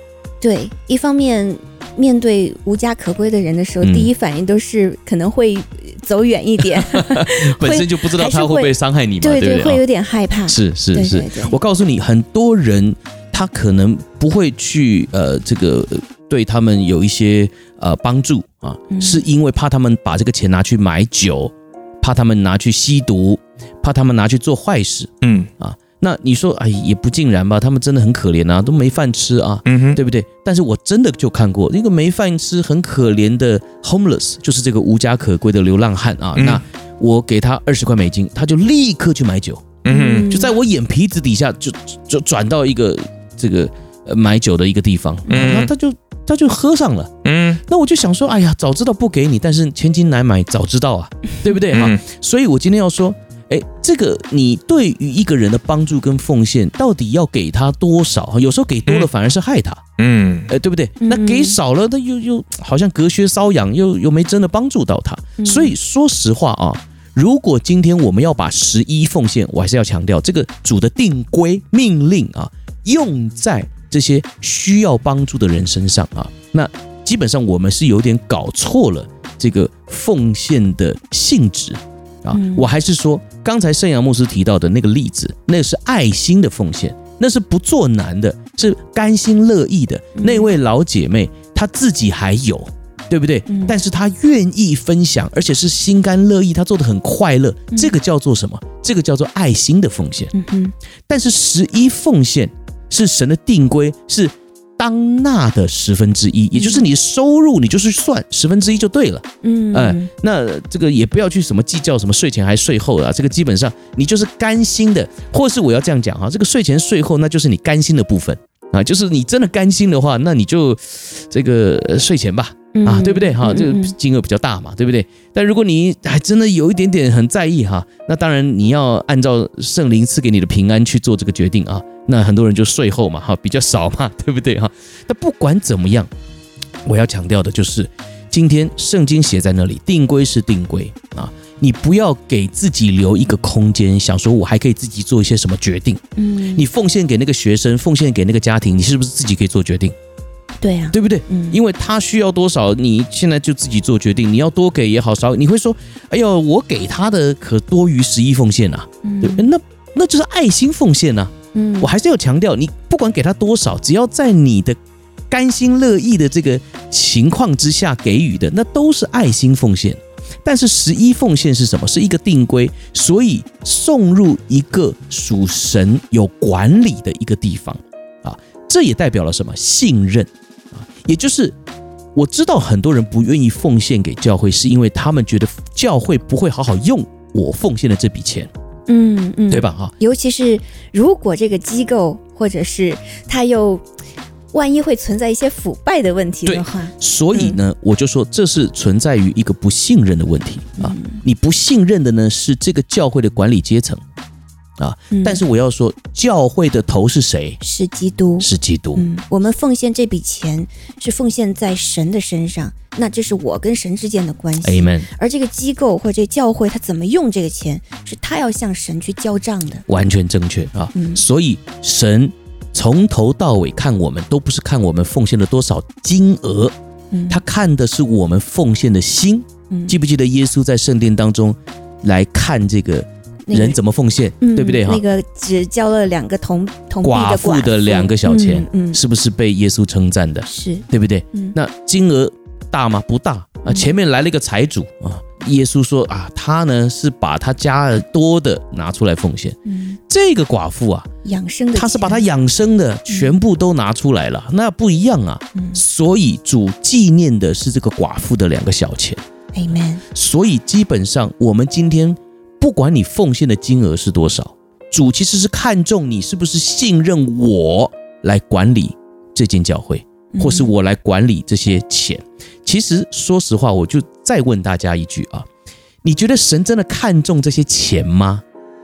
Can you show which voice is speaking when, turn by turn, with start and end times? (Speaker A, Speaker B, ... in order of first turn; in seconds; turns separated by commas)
Speaker A: 0.4-11.6, Speaker B: 3.8-4.1, Speaker B: 6.9-9.8, Speaker B: 10.5-47.1, Speaker A: 18.9-19.2, Speaker C: 25.2-25.5, Speaker C: 29.7-30.0, Speaker C: 36.4-36.6, Speaker C: 39.9-40.4, Speaker A: 39.9-40.5, Speaker C: 45.3-45.7, Speaker C: 47.2-47.6, Speaker B: 47.7-59.8, Speaker C: 51.7-52.0, Speaker C: 60.0-60.5, Speaker B: 60.5-100.3, Speaker A: 61.0-61.6, Speaker A: 65.4-65.8, Speaker A: 82.3-82.7, Speaker A: 90.2-90.5, Speaker A: 93.5-93.8, Speaker A: 100.3-100.8, Speaker B: 101.1-136.1, Speaker A: 106.5-106.8, Speaker A: 109.4-110.1, Speaker A: 122.7-124.0, Speaker B: 136.8-146.0, Speaker A: 146.2-146.7, Speaker B: 146.5-149.9, Speaker A: 150.6-151.6, Speaker B: 150.9-164.8, Speaker A: 159.0-159.5, Speaker A: 161.5-161.9, Speaker B: 165.3-181.6, Speaker B: 182.2-188.5, Speaker A: 188.9-193.8, Speaker B: 189.5-189.9, Speaker A: 194.5-197.6, Speaker B: 196.4-204.0, Speaker A: 200.8-201.2, Speaker B: 204.8-207.6, Speaker A: 205.1-205.4, Speaker A: 207.6-219.8, Speaker B: 208.4-209.1, Speaker B: 214.6-215.1, Speaker B: 219.9-226.7, Speaker A: 220.9-221.2, Speaker A: 227.1-227.4, Speaker B: 227.3-235.0, Speaker A: 229.7-229.9, Speaker A: 233.5-233.8, Speaker A: 234.4-239.0, Speaker B: 237.0-249.6, Speaker A: 240.5-241.6, Speaker A: 249.7-250.0, Speaker B: 250.1-251.1, Speaker A: 251.2-252.3, Speaker B: 251.8-259.2, Speaker A: 253.1-253.3, Speaker A: 255.6-255.8, Speaker A: 259.5-260.0, Speaker B: 260.1-275.5, Speaker A: 270.3-270.7, Speaker B: 276.0-278.4